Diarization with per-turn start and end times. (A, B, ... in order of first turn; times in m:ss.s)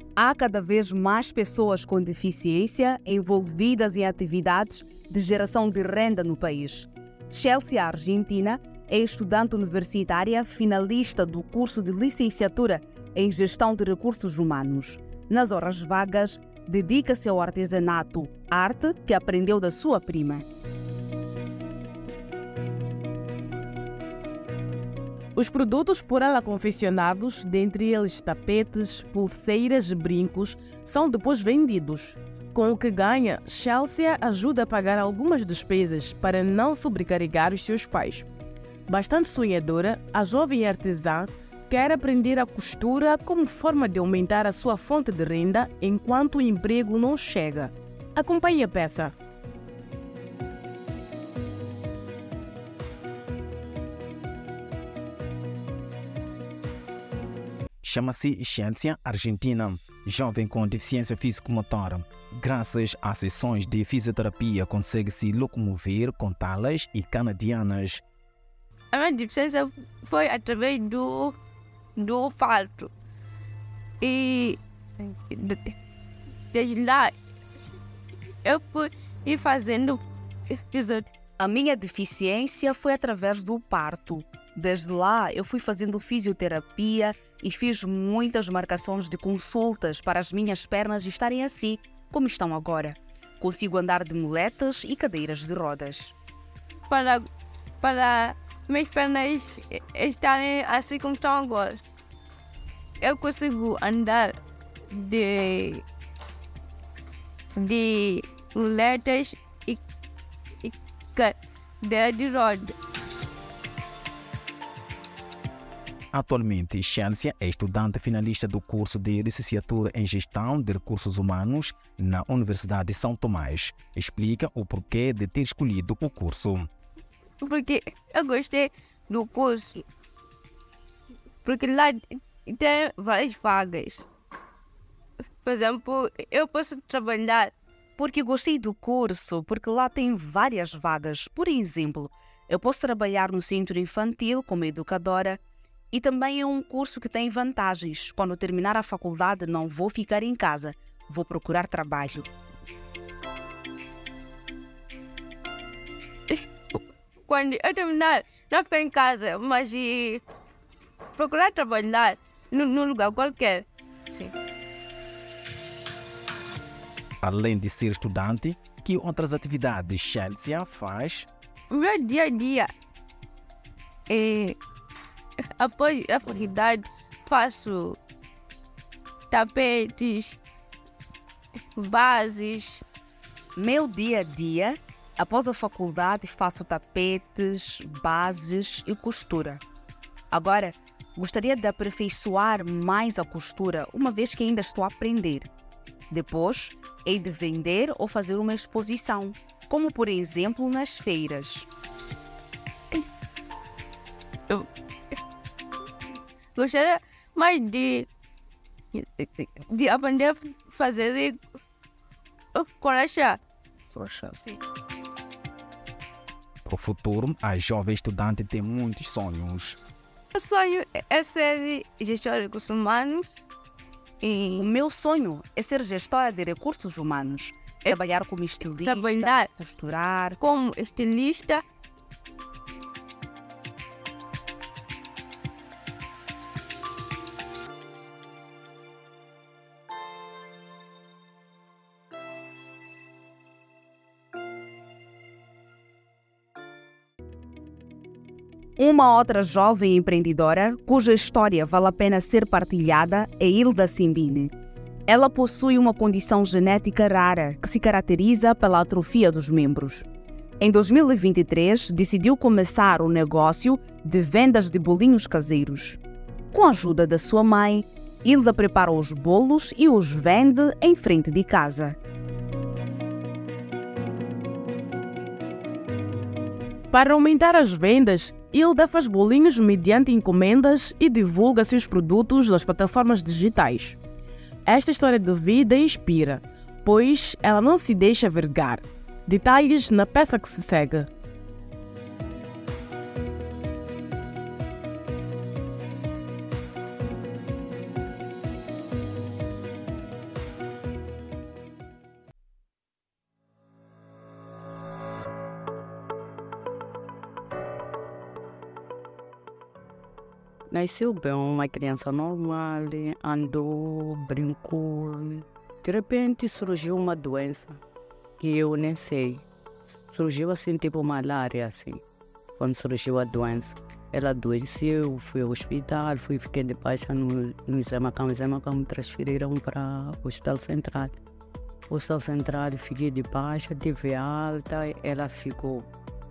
0:00.2-0:20.4 A
0:25.3-0:38.3 B
0:38.9-0:49.1 B
0:57.8-1:08.0 C
1:08.9-1:11.3 D
1:12.0-1:12.9 D
1:14.0-1:15.7 D
1:16.5-1:17.1 D
1:18.4-1:21.1 D
1:21.4-1:36.1 A
1:36.9-1:37.3 D
1:37.8-1:41.8 D
1:43.0-1:44.3 D
1:44.9-1:45.8 D
1:47.6-1:49.8 D
1:50.6-1:52.7 D
1:56.1-2:06.7 C
2:07.4-2:09.8 D
2:11.4-2:14.1 D
2:15.4-2:17.5 D
2:18.0-2:25.4 A
2:25.9-2:32.3 A
2:36.3-2:40.2 D
2:41.2-2:44.3 D
2:47.2-2:51.3 C
2:51.7-2:52.7 D
2:54.1-2:54.6 D
2:55.6-2:58.0 D
2:59.3-3:00.4 D
3:01.7-3:02.8 D
3:03.6-3:09.6 A
3:10.3-3:15.5 A
3:16.1-3:21.7 A
3:26.6-3:28.1 D
3:28.9-3:31.4 D
3:32.5-3:33.4 D
3:36.6-3:39.8 C
3:40.3-3:43.2 D
3:44.2-3:44.6 D
3:44.6-3:50.4 A
3:48.8-3:49.5 D
3:50.4-3:51.6 D
4:08.8-4:14.5 A
4:15.1-4:20.0 A
4:20.6-4:26.0 A
4:26.5-4:32.0 A
4:36.9-4:44.0 B
4:44.6-4:51.1 B
5:10.7-5:17.8 E
5:18.4-5:22.0 E
5:22.6-5:31.1 E
5:31.9-5:35.9 E